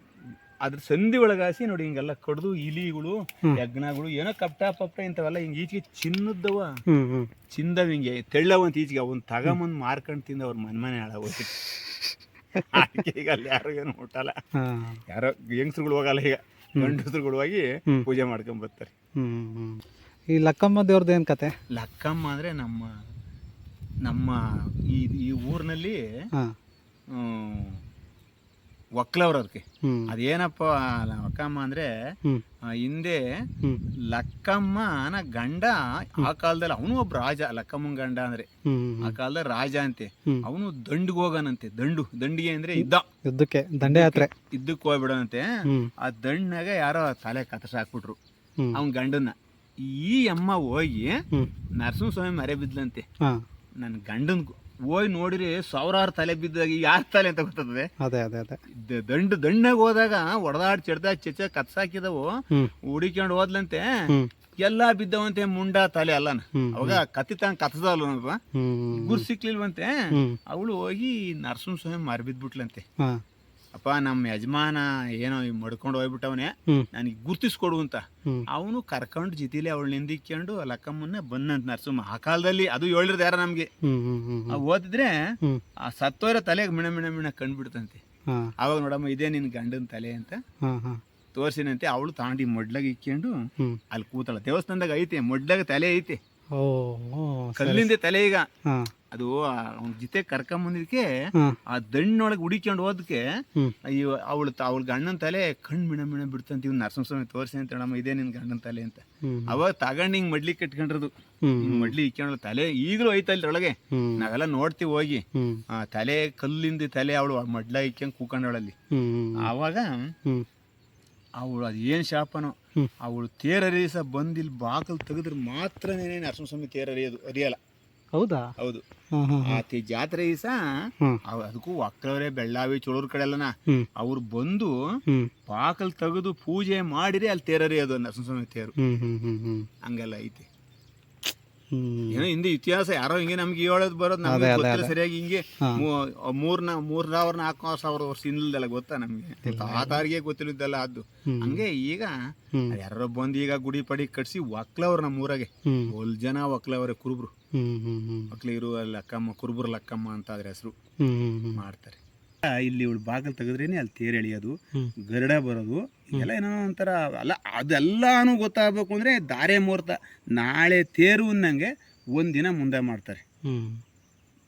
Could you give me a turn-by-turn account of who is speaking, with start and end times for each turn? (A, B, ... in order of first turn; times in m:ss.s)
0:00.6-0:06.8 A
0:06.9-0:07.3 B
0:07.5-0:11.5 A
0:11.5-0:13.0 B
0:12.7-0:14.4 A
0:14.6-0:15.0 B
0:15.1-0:18.9 A
0:19.2-0:21.5 B
0:21.7-0:22.9 A
0:24.0-0:26.0 A
0:27.1-0:27.8 A
0:29.0-0:31.9 A
0:29.8-0:30.1 B
0:32.7-0:33.4 A
0:34.1-0:38.5 A
0:38.6-0:39.2 B
0:39.0-0:43.1 A
0:42.8-0:44.3 B
0:43.8-0:48.2 A
0:45.6-0:45.9 B
0:48.7-0:51.2 A
0:51.8-0:53.0 A
0:53.8-0:57.9 A
0:58.0-0:58.6 B
0:58.7-1:03.9 A
1:04.6-1:08.4 A
1:06.5-1:07.0 B
1:08.5-1:09.2 B
1:08.9-1:12.8 A
1:10.1-1:10.4 B
1:13.7-1:23.7 A
1:23.8-1:24.6 B
1:24.5-1:25.1 A
1:25.8-1:28.0 A
1:28.6-1:30.4 A
1:30.6-1:31.0 B
1:31.3-1:33.4 A
1:33.9-1:36.2 A
1:36.6-1:37.9 B
1:37.6-1:38.5 A
1:39.1-1:41.1 A
1:41.7-1:43.2 A
1:43.8-1:58.8 A
1:49.2-1:49.6 B
1:51.4-1:51.9 B
1:53.9-1:54.3 B
1:55.3-1:55.6 B
1:58.9-1:59.5 B
1:59.4-2:00.1 A
2:01.4-2:07.6 A
2:08.1-2:08.5 B
2:08.6-2:08.8 A
2:09.1-2:09.6 B
2:09.4-2:10.6 A
2:11.2-2:14.8 A
2:15.4-2:18.7 A
2:18.8-2:19.7 B
2:19.8-2:20.5 A
2:21.7-2:22.3 B
2:22.1-2:32.1 A
2:24.2-2:24.9 B
2:29.4-2:30.0 B
2:31.3-2:31.6 B
2:32.5-2:32.8 B
2:32.7-2:37.3 A
2:35.6-2:35.9 B
2:37.5-2:38.3 B
2:38.3-2:40.7 A
2:41.0-2:41.6 B
2:41.5-2:53.2 A
2:53.4-2:53.8 B